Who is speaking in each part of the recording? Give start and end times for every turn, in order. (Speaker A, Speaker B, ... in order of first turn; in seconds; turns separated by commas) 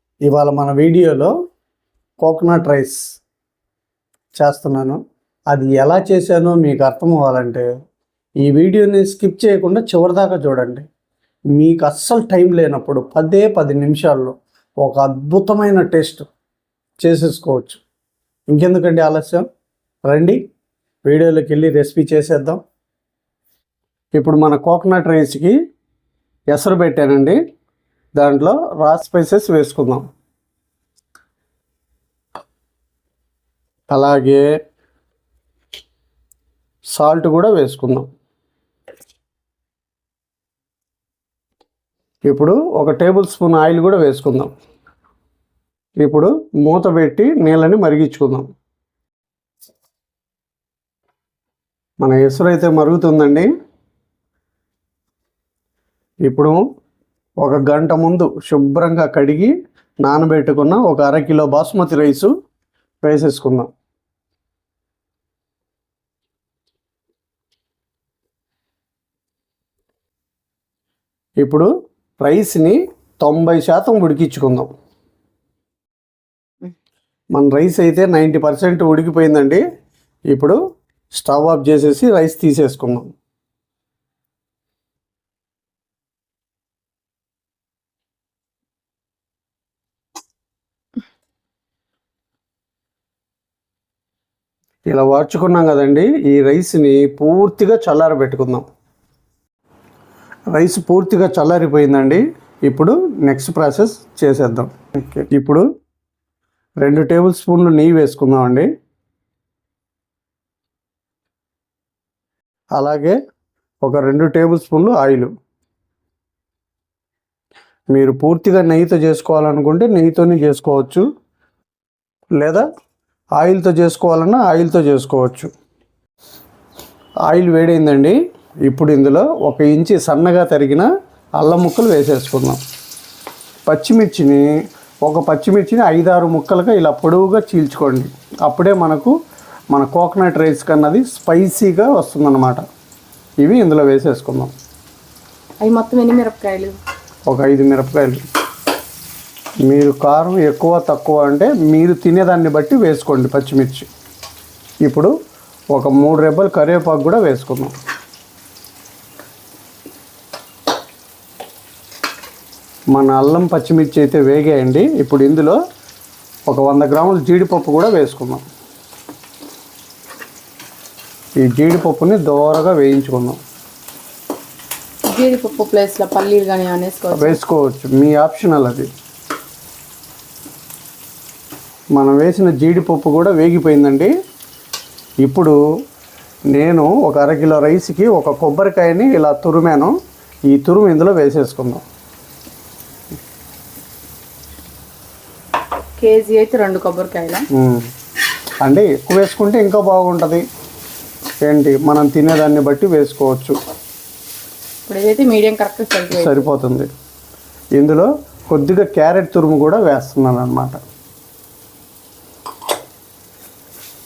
Speaker A: 0.3-1.3, Speaker A: 2.2-3.0, Speaker A: 4.4-5.0, Speaker A: 5.5-7.7, Speaker A: 8.4-10.9, Speaker A: 11.5-16.3, Speaker A: 17.0-17.8, Speaker A: 18.5-19.5, Speaker A: 20.1-20.4, Speaker A: 21.1-22.6, Speaker A: 24.2-25.6, Speaker A: 26.5-27.4, Speaker A: 28.2-30.1, Speaker A: 33.9-34.4, Speaker A: 37.0-38.1, Speaker A: 42.3-44.5, Speaker A: 46.0-48.5, Speaker A: 52.0-53.5, Speaker A: 56.3-56.6, Speaker A: 57.4-59.5, Speaker A: 60.0-62.3, Speaker A: 63.0-63.7, Speaker A: 71.4-71.7, Speaker A: 72.2-74.7, Speaker A: 77.3-79.6, Speaker A: 80.3-80.6, Speaker A: 81.2-83.1, Speaker A: 94.9-98.7, Speaker A: 100.5-105.7, Speaker A: 106.8-108.7, Speaker A: 112.8-113.2, Speaker A: 113.8-115.3, Speaker A: 117.9-121.1, Speaker A: 122.4-122.7, Speaker A: 123.4-125.5, Speaker A: 127.3-130.9, Speaker A: 131.4-132.6, Speaker A: 133.7-134.5, Speaker A: 135.1-139.2, Speaker A: 139.7-142.6, Speaker A: 143.4-144.5, Speaker B: 145.6-146.8, Speaker A: 147.3-148.2, Speaker A: 149.7-153.9, Speaker A: 154.8-155.1, Speaker A: 155.7-157.8, Speaker A: 162.9-165.6, Speaker A: 166.5-168.4, Speaker A: 171.4-173.4, Speaker B: 175.1-177.4, Speaker A: 177.1-178.9, Speaker A: 182.0-184.1, Speaker A: 185.2-185.6, Speaker A: 186.5-189.9, Speaker A: 190.5-191.8, Speaker B: 196.0-197.5, Speaker A: 197.5-197.8, Speaker A: 198.6-200.4, Speaker A: 201.5-203.6, Speaker B: 204.9-206.5, Speaker A: 206.1-206.9, Speaker A: 207.8-210.8